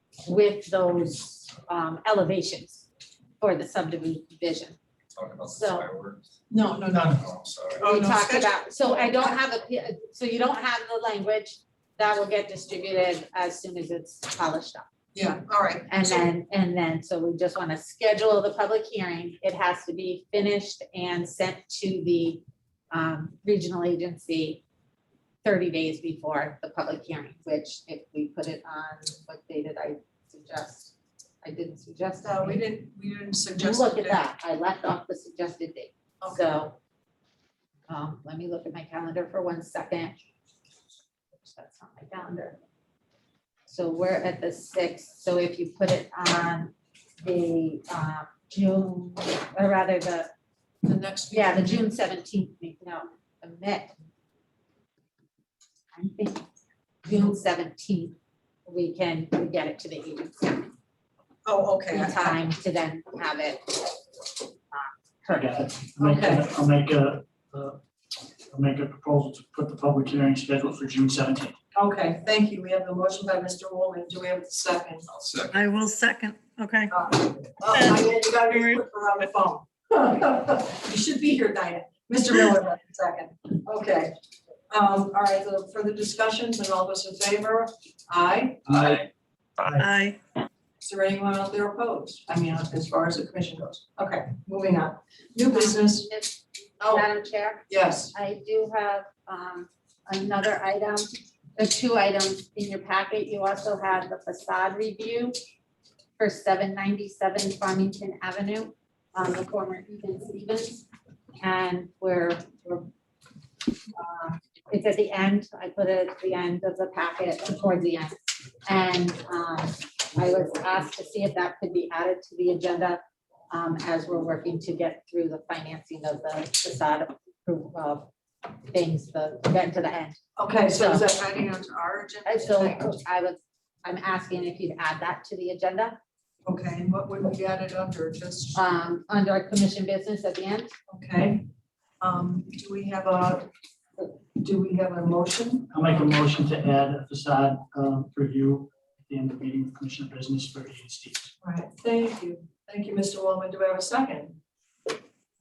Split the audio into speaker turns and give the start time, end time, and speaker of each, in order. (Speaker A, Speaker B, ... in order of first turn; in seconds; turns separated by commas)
Speaker A: 0.2-2.9, Speaker A: 3.4-4.8, Speaker B: 5.1-6.2, Speaker A: 5.4-5.9, Speaker C: 6.5-7.2, Speaker B: 7.1-7.8, Speaker C: 7.8-9.4, Speaker A: 7.8-14.9, Speaker C: 15.1-16.3, Speaker A: 15.9-24.6, Speaker A: 25.4-32.6, Speaker C: 32.2-34.2, Speaker A: 33.6-36.8, Speaker A: 37.9-40.2, Speaker A: 41.3-42.6, Speaker A: 43.7-50.3, Speaker C: 50.8-51.8, Speaker A: 51.3-54.0, Speaker A: 55.9-56.5, Speaker A: 57.0-60.7, Speaker C: 61.4-62.4, Speaker A: 61.9-64.0, Speaker A: 64.7-65.7, Speaker D: 65.3-67.8, Speaker C: 66.0-66.5, Speaker D: 68.5-71.6, Speaker C: 71.7-75.0, Speaker B: 75.1-75.6, Speaker E: 75.5-76.9, Speaker C: 76.9-84.1, Speaker E: 77.7-78.8, Speaker C: 84.7-89.0, Speaker E: 89.8-90.2, Speaker C: 90.8-96.1, Speaker A: 95.5-105.3, Speaker C: 96.8-97.1, Speaker C: 97.7-98.1, Speaker A: 106.2-110.8, Speaker A: 111.4-112.9, Speaker A: 114.0-123.0, Speaker A: 123.5-128.1, Speaker A: 128.7-130.2, Speaker C: 130.4-132.9, Speaker A: 130.7-131.0, Speaker A: 132.2-136.0, Speaker C: 136.4-138.6, Speaker A: 138.5-140.7, Speaker C: 140.9-141.4, Speaker C: 142.0-143.5, Speaker C: 144.0-146.0, Speaker D: 145.7-151.3, Speaker C: 151.4-154.4